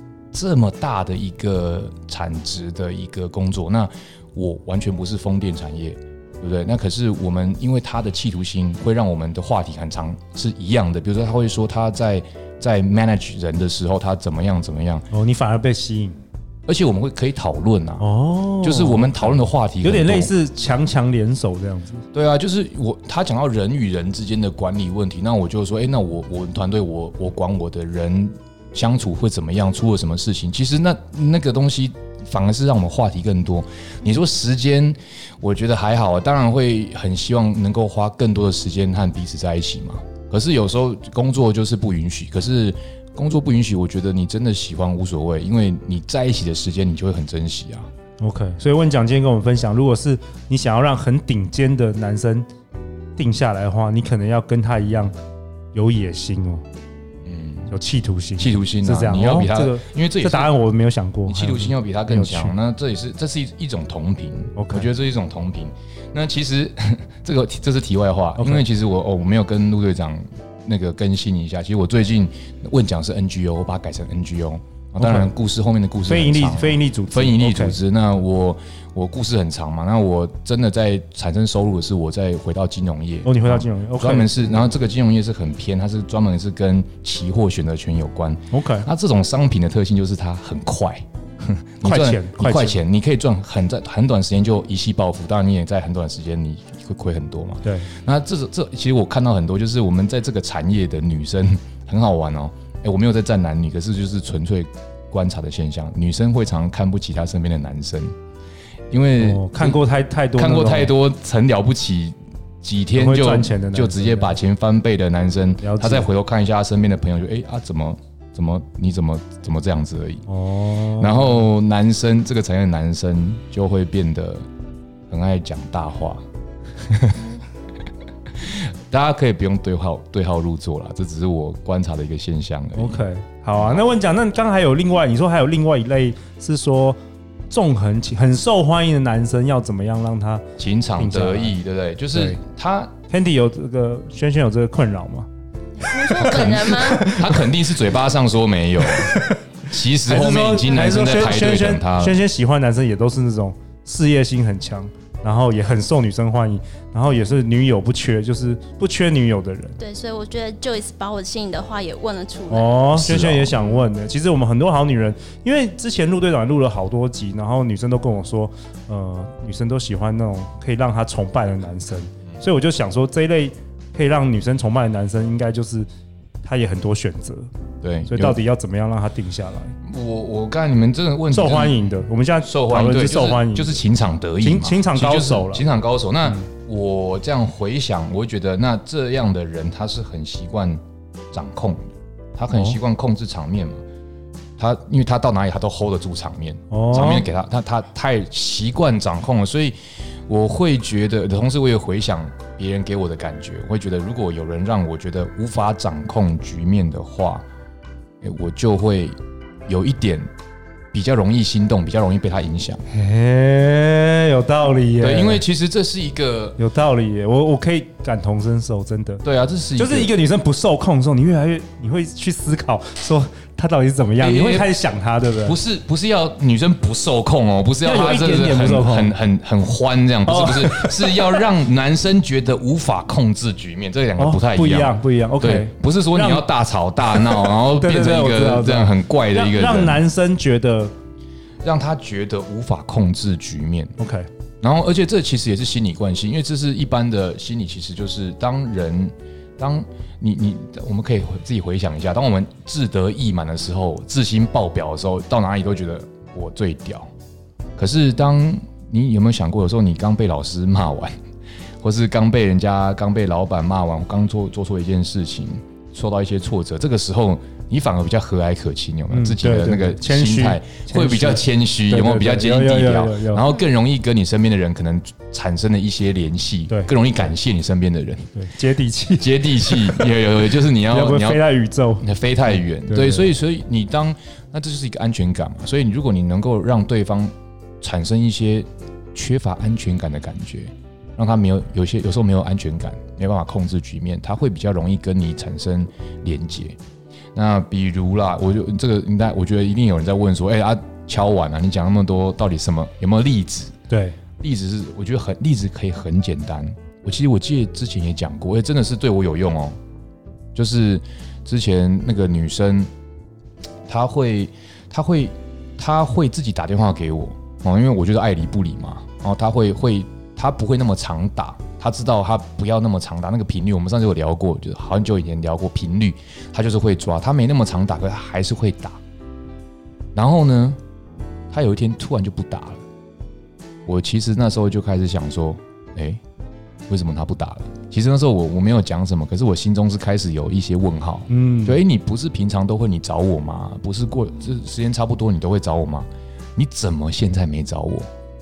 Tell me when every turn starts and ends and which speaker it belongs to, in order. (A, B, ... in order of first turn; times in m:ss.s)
0:00.3-0:15.0 A
0:15.1-0:16.2 B
0:16.7-0:18.0 A
0:18.0-0:22.0 B
0:18.6-0:20.3 A
0:22.1-0:47.9 A
0:48.2-0:52.5 B
0:53.2-0:55.1 B
0:55.7-0:56.6 B
0:57.2-0:57.7 A
0:57.7-1:02.5 B
0:58.4-1:00.6 A
1:01.2-1:48.1 A
1:04.5-1:04.9 B
1:08.4-1:08.6 B
1:15.0-1:15.3 B
1:16.0-1:17.8 B
1:23.2-1:24.5 B
1:28.5-1:28.9 B
1:31.8-1:32.8 B
1:37.6-1:37.9 B
1:48.9-1:49.8 A
1:49.2-1:50.9 B
1:50.4-2:00.2 A
1:52.9-1:54.4 B
1:55.6-1:56.1 B
2:00.3-2:01.4 B
2:01.0-2:04.4 A
2:05.1-2:06.2 A
2:06.8-2:07.2 A
2:08.4-2:13.0 A
2:12.7-2:17.0 B
2:13.6-2:13.9 A
2:17.5-2:20.4 B
2:20.6-2:22.9 A
2:21.0-2:21.6 B
2:22.1-2:22.4 B
2:23.1-2:25.3 B
2:25.8-2:27.0 C
2:26.2-2:27.4 B
2:26.2-2:32.2 A
2:28.9-2:29.3 B
2:30.0-2:39.8 B
2:39.8-2:42.8 C
2:42.5-2:55.9 B
2:42.9-2:43.6 A
2:56.4-2:57.5 B
2:57.8-2:58.4 A
2:58.1-2:59.7 B
2:59.8-3:01.8 A
3:01.3-3:03.8 B
3:02.4-3:10.8 A
3:04.4-3:05.6 B
3:11.3-3:13.8 A
3:12.5-3:12.8 B
3:14.6-3:27.4 A
3:16.7-3:17.3 B
3:28.2-3:29.2 A
3:29.7-3:30.3 A
3:30.9-3:32.8 A
3:32.9-3:35.4 B
3:35.0-3:36.6 A
3:36.6-3:39.2 B
3:39.2-3:40.1 A
3:39.8-3:45.6 B
3:44.2-3:44.7 A
3:45.3-4:00.0 A
3:47.8-3:49.2 B
3:50.2-3:51.5 B
3:54.2-3:56.5 B
3:57.1-4:00.9 B
4:01.6-4:03.9 A
4:04.0-4:04.3 B
4:04.6-4:17.1 A
4:17.8-4:21.2 A
4:21.8-4:38.3 A
4:29.1-4:33.5 B
4:38.3-4:40.2 B
4:39.2-4:41.4 A
4:40.8-4:42.1 B
4:42.0-4:56.8 A
4:42.8-4:43.3 B
4:57.3-5:03.7 A
5:03.9-5:04.2 B
5:04.4-5:09.8 A
5:10.5-5:12.9 A
5:13.9-5:29.0 A
5:30.1-5:30.8 A
5:31.5-5:32.8 A
5:33.8-5:36.2 A
5:36.9-5:48.1 A
5:41.3-5:41.8 B